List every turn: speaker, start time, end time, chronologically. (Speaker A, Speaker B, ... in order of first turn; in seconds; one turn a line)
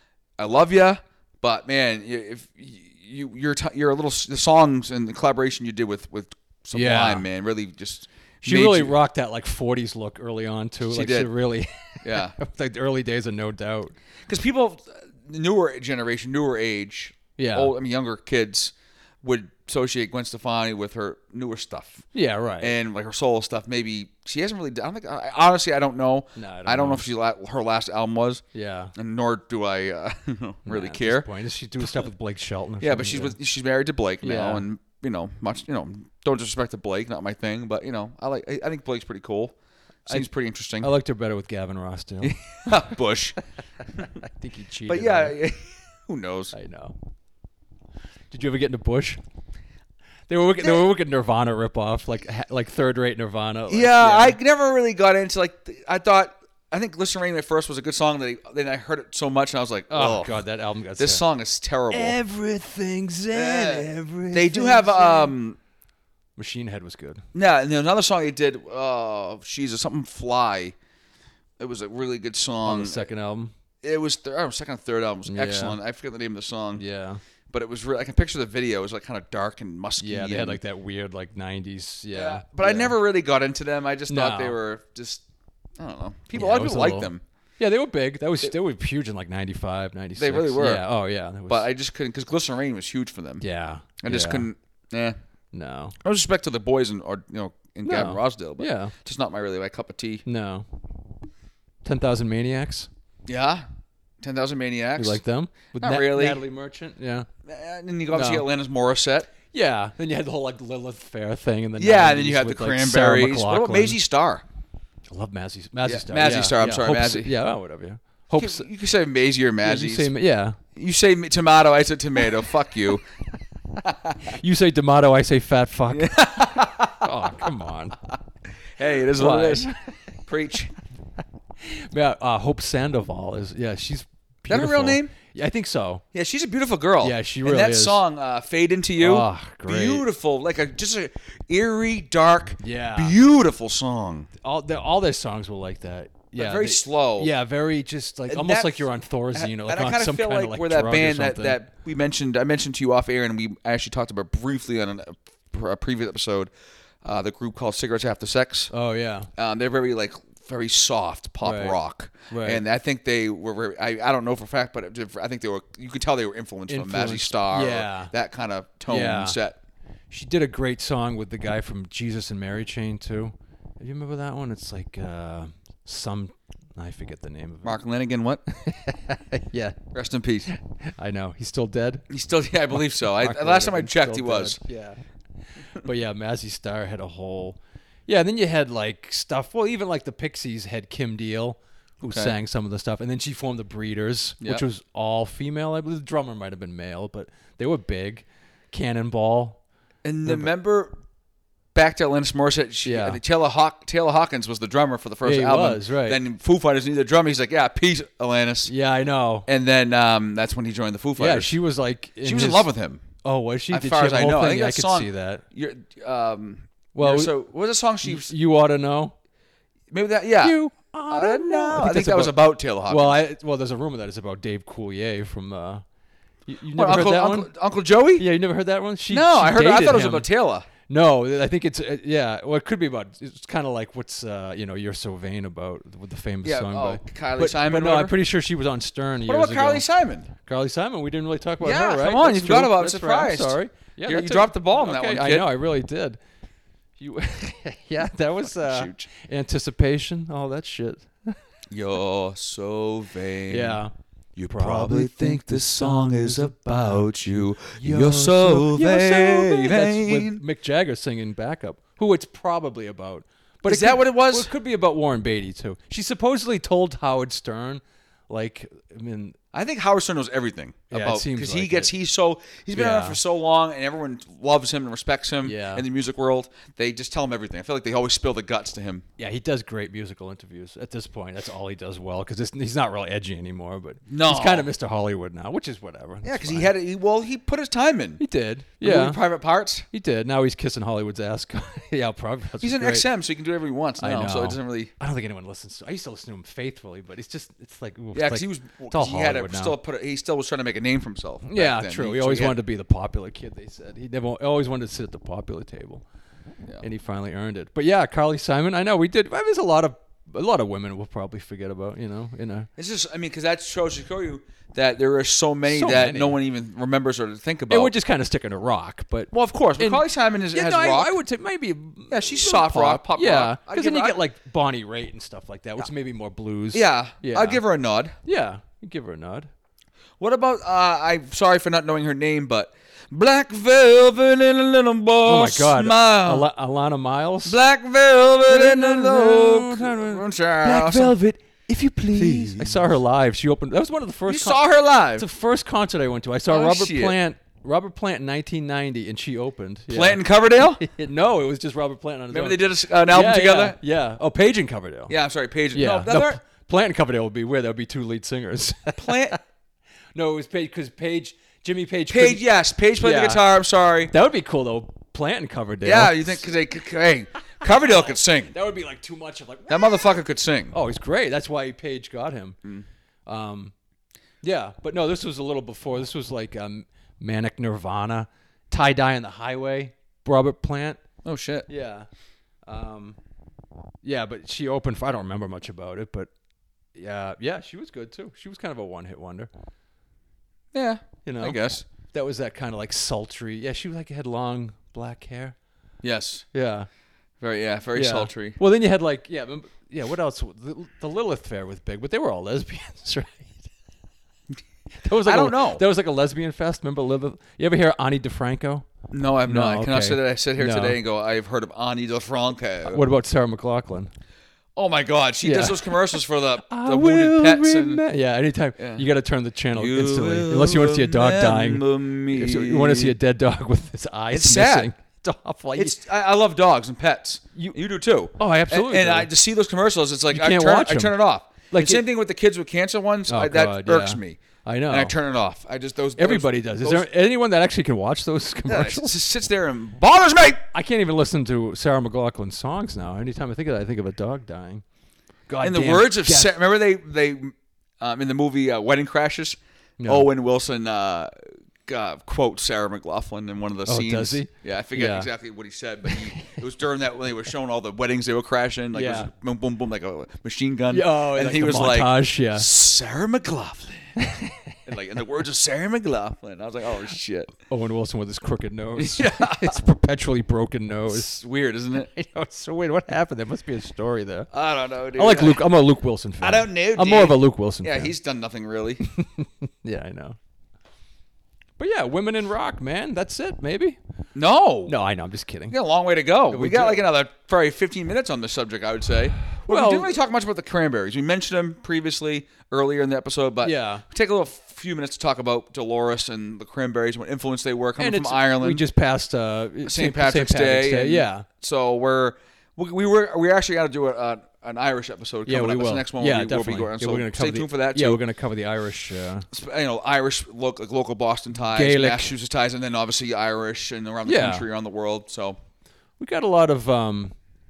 Speaker A: 0.4-8.9
Speaker B: 6.7-7.3
Speaker B: 8.4-13.9
Speaker A: 10.9-11.3
Speaker A: 12.0-12.4
Speaker A: 14.3-22.1
Speaker B: 17.4-17.7
Speaker B: 22.1-22.8
Speaker A: 22.6-28.4
Speaker B: 26.4-27.1
Speaker B: 28.5-28.9
Speaker A: 28.9-31.3
Speaker B: 30.7-33.4
Speaker A: 31.8-32.1
Speaker A: 32.8-39.5
Speaker B: 34.2-34.6
Speaker A: 40.1-40.9
Speaker B: 40.8-42.4
Speaker A: 42.2-43.4
Speaker B: 44.0-45.4
Speaker A: 44.9-46.5
Speaker B: 46.5-47.0
Speaker B: 48.3-49.2
Speaker B: 50.3-54.4
Speaker A: 53.7-60.4
Speaker B: 59.9-61.2
Speaker A: 61.0-62.2
Speaker B: 61.9-65.3
Speaker A: 63.3-65.6
Speaker B: 66.4-67.2
Speaker A: 67.3-70.8
Speaker A: 71.6-73.1
Speaker B: 72.6-73.5
Speaker A: 73.8-76.8
Speaker B: 75.3-75.8
Speaker B: 76.8-77.2
Speaker A: 77.5-80.6
Speaker B: 80.0-82.9
Speaker A: 82.1-85.2
Speaker B: 84.1-84.6
Speaker A: 85.8-87.2
Speaker B: 86.3-91.7
Speaker A: 90.2-90.9
Speaker A: 91.5-93.4
Speaker B: 93.4-94.5
Speaker A: 94.0-95.2
Speaker B: 95.5-96.0
Speaker A: 96.0-100.2
Speaker B: 97.8-98.9
Speaker B: 100.3-100.7
Speaker B: 101.8-102.9
Speaker A: 103.3-103.6
Speaker A: 104.2-105.2
Speaker B: 105.0-107.3
Speaker A: 105.8-106.4
Speaker A: 107.5-109.3
Speaker B: 108.1-108.5
Speaker B: 109.5-114.0
Speaker A: 111.8-114.4
Speaker B: 115.1-118.7
Speaker A: 115.8-117.3
Speaker A: 118.3-120.1
Speaker B: 119.6-120.6
Speaker A: 120.8-123.0
Speaker A: 123.8-124.2
Speaker B: 124.3-126.3
Speaker A: 125.9-127.1
Speaker B: 127.0-128.0
Speaker A: 128.8-129.7
Speaker B: 129.2-129.8
Speaker A: 130.3-130.7
Speaker B: 131.6-136.0
Speaker A: 134.5-135.1
Speaker A: 136.1-144.3
Speaker B: 137.0-138.0
Speaker B: 139.0-140.0
Speaker B: 142.6-143.2
Speaker B: 144.4-151.6
Speaker A: 146.4-147.3
Speaker A: 148.3-156.5
Speaker A: 157.0-158.7
Speaker B: 158.7-159.3
Speaker A: 159.4-169.6
Speaker B: 161.4-161.8
Speaker B: 162.3-162.6
Speaker B: 166.7-168.1
Speaker B: 168.9-169.4
Speaker B: 170.1-177.8
Speaker A: 177.6-178.4
Speaker B: 178.5-179.8
Speaker A: 179.9-180.5
Speaker B: 180.5-182.1
Speaker A: 182.1-184.6
Speaker B: 182.9-185.0
Speaker B: 185.8-199.6
Speaker A: 192.0-192.3
Speaker A: 200.0-200.9
Speaker A: 201.7-208.7
Speaker B: 202.8-203.2
Speaker B: 205.2-206.2
Speaker B: 208.7-209.5
Speaker A: 209.5-211.5
Speaker B: 211.2-212.7
Speaker A: 212.2-213.0
Speaker B: 213.2-215.4
Speaker A: 213.7-218.3
Speaker B: 216.9-217.3
Speaker B: 218.0-219.1
Speaker A: 219.9-220.6
Speaker B: 220.4-222.3
Speaker A: 221.1-223.2
Speaker B: 222.9-225.8
Speaker B: 226.5-227.5
Speaker A: 226.8-228.2
Speaker B: 228.2-230.3
Speaker A: 229.1-230.7
Speaker B: 230.9-239.8
Speaker A: 236.4-238.2
Speaker A: 239.3-240.3
Speaker B: 240.4-246.2
Speaker A: 241.6-245.5
Speaker B: 247.0-251.4
Speaker A: 248.5-249.1
Speaker A: 251.7-253.8
Speaker B: 253.5-253.9
Speaker A: 254.4-260.4
Speaker B: 254.5-269.4
Speaker A: 263.6-264.5
Speaker A: 269.5-279.1
Speaker B: 270.9-271.9
Speaker B: 272.7-273.2
Speaker B: 275.4-275.9
Speaker B: 279.2-286.7
Speaker A: 284.1-284.7
Speaker A: 286.2-288.2
Speaker B: 288.2-289.2
Speaker A: 288.8-289.9
Speaker B: 289.9-293.1
Speaker A: 292.6-294.9
Speaker B: 294.0-299.8
Speaker A: 298.1-302.6
Speaker B: 301.5-306.0
Speaker B: 306.8-312.7
Speaker A: 312.8-317.9
Speaker B: 315.6-316.4
Speaker B: 317.7-327.6
Speaker A: 319.3-321.1
Speaker A: 322.1-324.2
Speaker A: 326.7-328.1
Speaker B: 328.2-329.5
Speaker A: 330.2-336.5
Speaker B: 335.2-337.6
Speaker A: 337.5-341.1
Speaker B: 338.5-344.6
Speaker A: 342.1-342.8
Speaker A: 344.3-345.2
Speaker B: 345.2-350.2
Speaker A: 346.5-347.1
Speaker A: 349.9-350.8
Speaker B: 350.8-355.1
Speaker A: 352.3-353.8
Speaker A: 355.1-356.4
Speaker B: 355.7-359.4
Speaker A: 359.0-359.4
Speaker B: 360.1-362.4
Speaker A: 362.1-364.1
Speaker B: 363.0-363.4
Speaker B: 364.1-366.5
Speaker A: 365.8-368.5
Speaker B: 367.6-370.1
Speaker A: 369.7-370.8
Speaker B: 370.7-372.6
Speaker B: 373.3-373.7
Speaker B: 374.4-381.0
Speaker A: 381.2-381.7
Speaker B: 381.7-382.1
Speaker B: 382.7-383.2
Speaker B: 384.0-386.3
Speaker B: 386.9-389.5
Speaker A: 390.7-391.9
Speaker B: 391.2-395.6
Speaker A: 396.0-396.4
Speaker B: 396.5-396.9
Speaker A: 397.4-398.6
Speaker B: 397.9-403.6
Speaker B: 405.0-408.9
Speaker A: 405.1-405.8
Speaker A: 409.1-413.0
Speaker B: 409.5-411.0
Speaker B: 412.9-414.1
Speaker A: 414.8-418.0
Speaker B: 415.4-416.0
Speaker B: 416.6-426.0
Speaker A: 418.8-419.0
Speaker A: 419.7-423.1
Speaker A: 424.3-424.9
Speaker A: 425.8-437.1
Speaker B: 428.4-429.3
Speaker B: 430.3-431.1
Speaker B: 431.7-432.0
Speaker B: 433.3-435.1
Speaker B: 436.2-439.1
Speaker A: 438.6-440.6
Speaker B: 440.7-444.8
Speaker B: 445.5-446.5
Speaker A: 445.6-451.3
Speaker B: 450.0-450.3
Speaker A: 451.9-464.1
Speaker B: 453.9-455.3
Speaker B: 456.1-456.5
Speaker B: 458.9-459.3
Speaker B: 460.9-462.7
Speaker B: 464.2-464.8
Speaker A: 464.9-467.5
Speaker B: 467.7-471.3
Speaker A: 469.0-469.8
Speaker A: 471.1-472.1
Speaker B: 472.0-474.5
Speaker A: 474.5-475.6
Speaker B: 475.1-478.1
Speaker A: 476.4-479.0
Speaker B: 479.0-480.4
Speaker B: 481.8-484.0
Speaker A: 484.4-484.9
Speaker B: 484.9-485.8
Speaker A: 485.7-498.8
Speaker B: 486.5-487.1
Speaker B: 489.7-490.1
Speaker B: 493.6-494.0
Speaker B: 498.0-501.5
Speaker A: 499.9-508.2
Speaker B: 505.5-509.5
Speaker A: 509.5-515.6
Speaker B: 511.6-512.4
Speaker B: 514.2-514.6
Speaker B: 516.2-517.3